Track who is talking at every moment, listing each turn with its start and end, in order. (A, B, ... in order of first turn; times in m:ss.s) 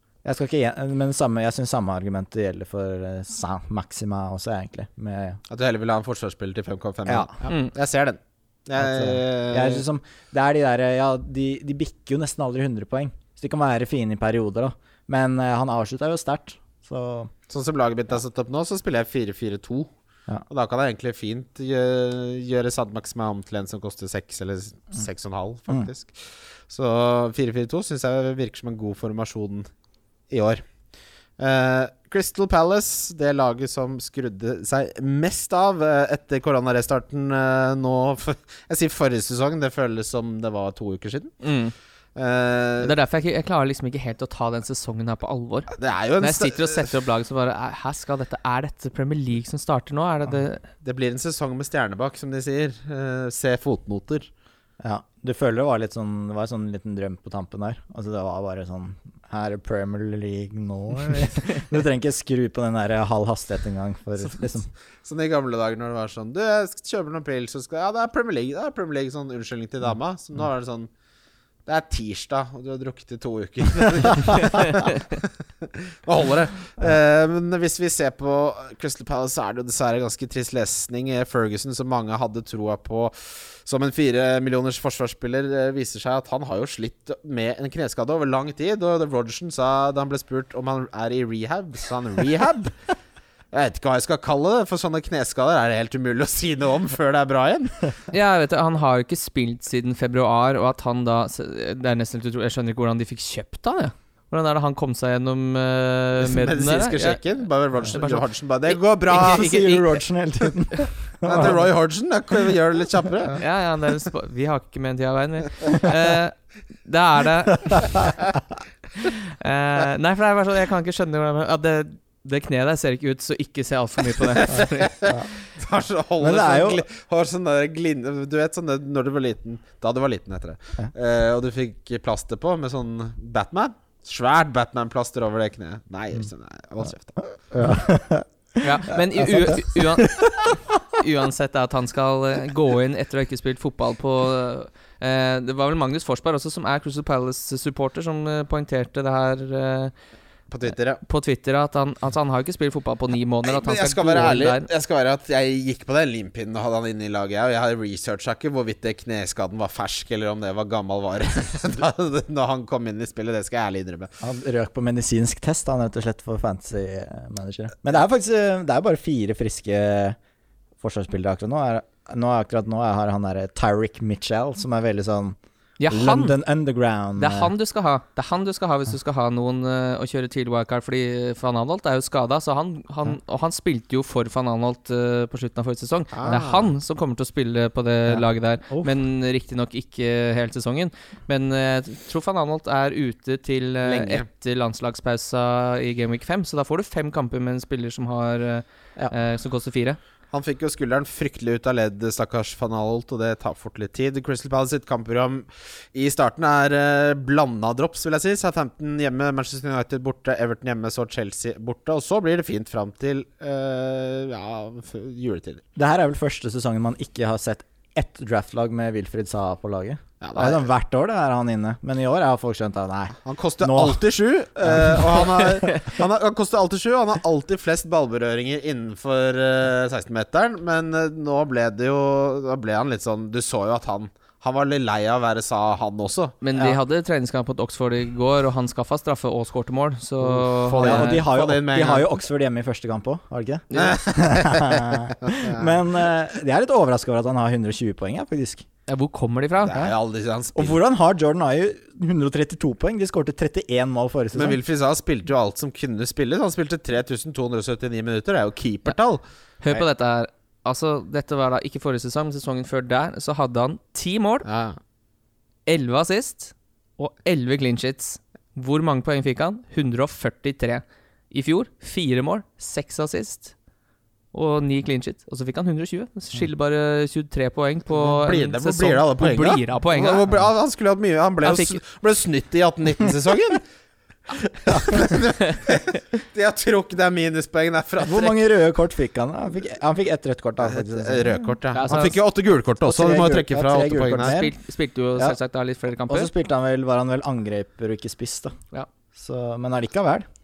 0:00.2-0:05.4 A
0:05.5-0:09.8 B
0:07.0-0:07.3 A
0:07.5-0:07.7 C
0:08.8-0:17.3 A
0:17.5-0:19.9 B
0:20.5-0:29.7 B
0:30.3-0:30.6 B
0:31.4-0:41.3 B
0:41.4-0:41.7 C
0:42.2-0:42.9 B
0:42.8-0:50.6 C
0:45.8-0:46.9 B
0:50.8-0:54.3 B
0:54.8-1:04.7 A
1:05.0-1:10.9 B
1:11.6-1:32.8 B
1:33.5-1:37.9 B
1:38.1-1:47.2 C
1:46.2-1:49.8 B
1:47.8-1:49.9 C
1:49.1-1:51.6 A
1:51.2-1:53.4 B
1:53.4-1:58.0 C
1:59.0-2:05.1 C
2:04.5-2:17.3 B
2:06.2-2:06.8 A
2:17.5-2:18.3 A
2:18.6-2:29.9 C
2:18.9-2:20.4 A
2:30.5-2:31.0 B
2:31.0-2:34.7 C
2:33.4-2:44.1 B
2:44.2-2:50.2 A
2:50.8-2:55.4 A
2:55.8-2:56.4 C
2:55.9-2:57.5 A
2:57.2-3:20.0 C
3:06.1-3:06.7 B
3:08.1-3:08.9 A
3:13.8-3:14.2 B
3:20.3-3:35.6 B
3:35.8-3:44.0 A
3:40.2-3:40.6 B
3:43.2-3:56.4 B
3:44.6-3:45.6 A
3:56.4-4:01.3 C
4:00.2-4:08.6 A
4:00.6-4:02.1 B
4:03.7-4:04.0 C
4:03.7-4:05.7 B
4:08.9-4:09.8 C
4:09.6-4:10.8 B
4:10.5-4:14.6 A
4:14.3-4:19.7 B
4:19.6-4:24.4 C
4:24.4-4:24.8 B
4:25.6-4:33.5 C
4:34.3-4:40.2 C
4:38.0-4:43.6 B
4:41.4-4:41.8 C
4:44.4-4:48.4 B
4:44.7-4:45.0 A
4:48.0-4:51.6 A
4:50.6-4:54.4 B
4:51.7-4:52.2 C
4:52.8-4:54.5 A
4:54.2-4:56.3 C
4:56.1-4:58.5 A
4:59.1-5:00.3 A